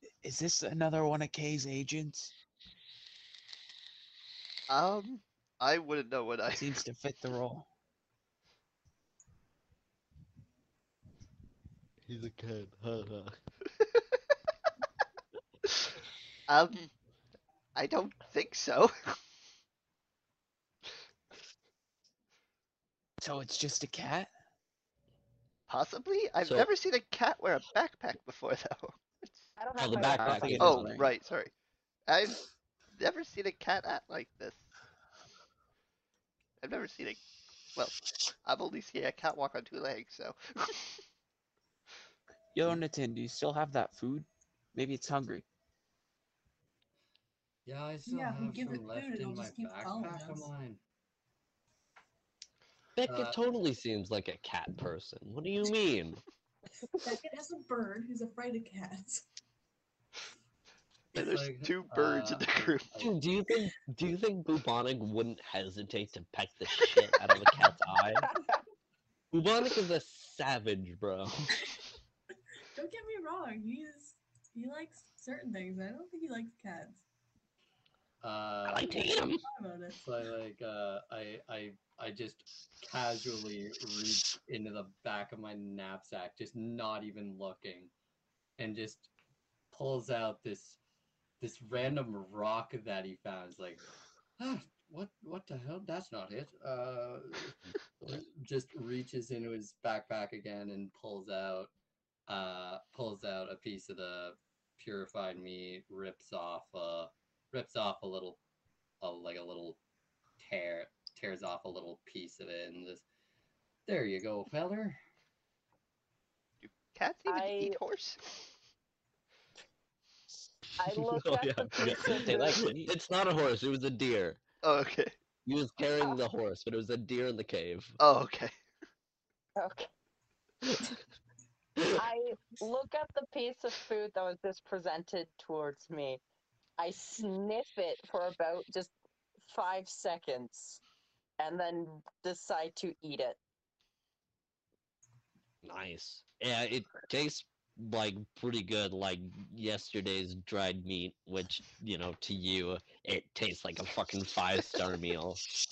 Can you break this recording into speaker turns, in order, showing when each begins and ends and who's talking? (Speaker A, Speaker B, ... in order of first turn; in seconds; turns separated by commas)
Speaker A: 0.2-2.3, Speaker B: 4.7-6.7, Speaker A: 6.5-7.7, Speaker C: 12.1-13.3, Speaker B: 16.5-16.9, Speaker B: 17.8-19.2, Speaker A: 23.2-24.3, Speaker B: 25.7-29.5, Speaker C: 26.4-26.7, Speaker D: 29.6-30.6, Speaker C: 29.8-30.9, Speaker A: 30.1-31.1, Speaker B: 30.6-31.5, Speaker B: 32.1-32.4, Speaker B: 33.0-34.6, Speaker B: 36.6-37.2, Speaker B: 37.7-41.0, Speaker A: 42.5-45.5, Speaker E: 47.6-50.8, Speaker F: 48.0-50.5, Speaker C: 53.0-56.2, Speaker E: 53.0-53.4, Speaker F: 57.0-59.2, Speaker E: 61.1-63.2, Speaker B: 61.1-62.9, Speaker C: 63.0-68.3, Speaker D: 68.2-68.6, Speaker C: 69.3-71.5, Speaker F: 72.7-77.0, Speaker E: 78.2-78.9, Speaker C: 78.6-79.4, Speaker F: 78.9-80.0, Speaker E: 80.0-87.9, Speaker E: 88.6-89.1, Speaker E: 89.7-90.8, Speaker E: 91.4-93.9, Speaker E: 94.4-101.7, Speaker E: 102.3-108.4, Speaker E: 109.0-109.8, Speaker E: 110.4-113.0, Speaker E: 113.8-115.0, Speaker B: 116.6-118.5, Speaker D: 117.3-117.8, Speaker D: 120.8-122.6, Speaker C: 120.9-124.4, Speaker A: 122.1-122.9, Speaker B: 124.6-125.1, Speaker C: 125.5-128.0, Speaker B: 128.0-128.5, Speaker D: 129.6-129.9, Speaker C: 130.7-130.9, Speaker D: 131.9-136.2, Speaker D: 136.8-138.9, Speaker D: 139.4-140.8, Speaker D: 141.4-143.4, Speaker C: 145.6-155.4